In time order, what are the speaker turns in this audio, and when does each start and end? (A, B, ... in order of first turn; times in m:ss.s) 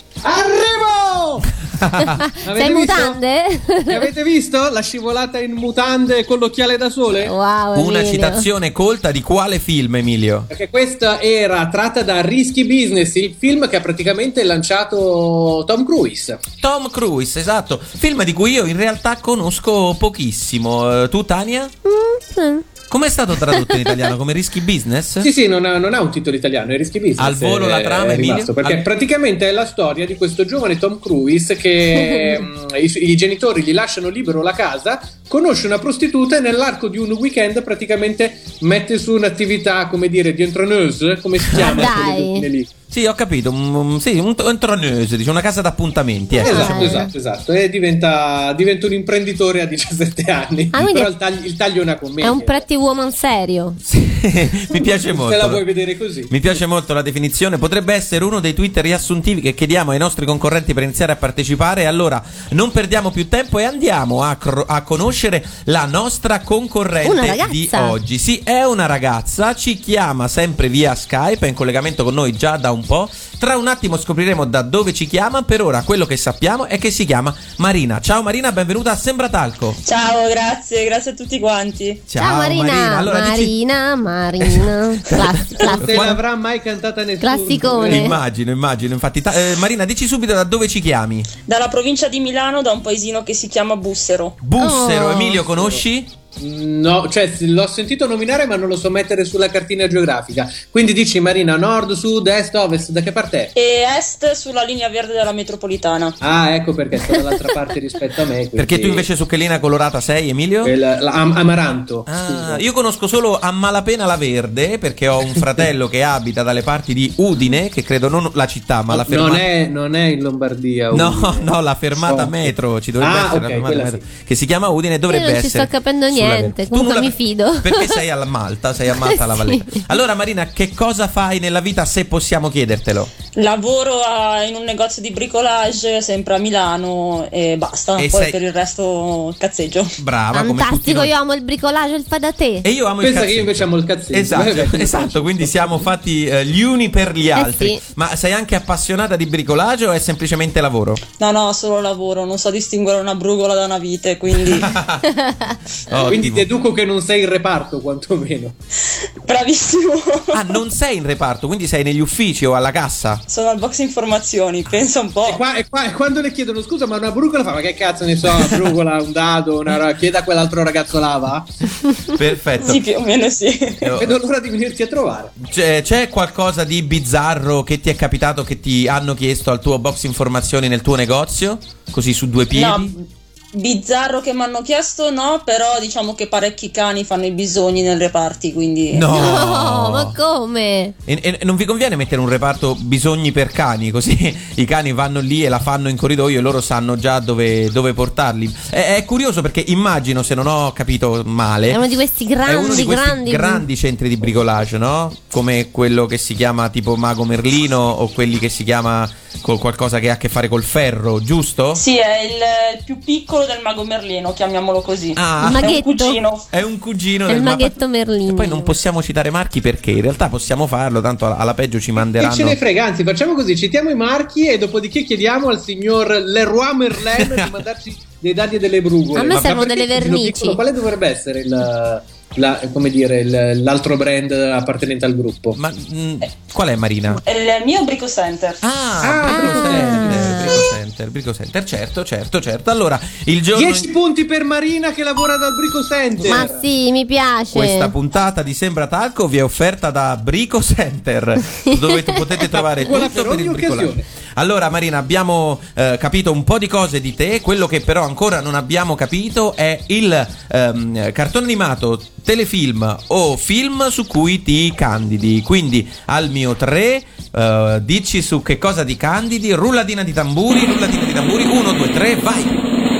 0:00.2-0:01.5 A
0:01.7-0:02.2 B
0:02.2-0:04.0 C
0:02.5-0:03.2 A
0:03.9-0:07.4 A
0:07.2-0:08.5 C
0:07.8-0:10.5 B
0:10.5-0:16.4 A
0:16.6-0:21.7 B
0:21.8-0:22.7 C
0:22.9-0:25.3 B
0:23.6-0:24.1 C
0:25.2-0:42.7 A
0:27.2-0:28.8 B
0:41.5-0:42.0 B
0:41.5-0:42.5 C
0:42.9-0:47.0 B
0:46.4-0:52.6 A
0:46.4-0:47.1 C
0:50.7-0:51.1 C
0:52.2-0:53.8 C
0:53.8-0:55.6 B
0:55.0-0:56.3 A
0:56.3-1:19.8 B
1:07.0-1:08.0 C
1:19.8-1:22.0 D
1:22.1-1:23.6 B
1:22.2-1:26.2 C
1:24.4-1:26.2 B
1:25.6-1:28.1 A
1:27.2-1:28.2 C
1:27.9-1:31.3 B
1:31.5-1:34.4 D
1:34.4-1:36.1 B
1:34.6-1:35.4 C
1:36.4-1:43.5 A
1:43.6-1:46.2 D
1:46.2-1:49.0 A
1:48.6-1:50.7 B
1:50.6-1:52.6 A
1:52.1-1:59.4 B
1:58.9-2:01.4 A
2:00.9-2:13.1 B
2:02.0-2:04.0 A
2:05.1-2:08.0 C
2:09.0-2:09.8 C
2:13.4-2:20.0 D
2:18.0-2:18.4 B
2:20.0-2:21.1 B
2:20.3-2:22.7 C
2:22.6-2:31.0 B
2:23.0-2:25.8 A
2:27.4-2:27.8 C
2:31.2-2:34.7 D
2:34.5-2:35.1 B
2:35.2-2:35.5 C
2:35.9-2:36.5 B
2:36.1-2:38.6 A
2:39.2-2:40.6 D
2:40.3-2:43.2 B
2:43.3-2:45.4 D
2:45.3-2:51.5 A
2:52.2-2:52.8 B
2:52.6-2:54.0 D
2:53.8-2:54.2 B
2:54.0-2:55.3 A
2:55.4-3:03.0 B
3:02.5-3:03.0 D
3:03.5-3:09.1 D
3:08.9-3:10.2 B
3:09.1-3:11.0 C
3:11.1-3:21.8 B
3:21.7-3:23.7 C
3:22.4-3:31.8 B
3:31.8-3:36.4 D
3:35.2-3:35.9 B
3:35.4-3:36.2 C
3:36.5-3:42.6 B
3:37.3-3:38.7 C
3:42.0-3:55.6 A
3:47.1-3:47.5 B
3:49.1-3:50.6 C
3:49.2-3:49.7 B
3:55.6-3:57.2 B
3:57.2-3:58.6 D
3:58.6-4:03.9 B
3:59.0-4:00.5 A
3:59.3-4:00.5 C
4:03.5-4:06.6 A
4:06.2-4:07.9 C
4:07.5-4:32.6 B
4:12.5-4:14.0 A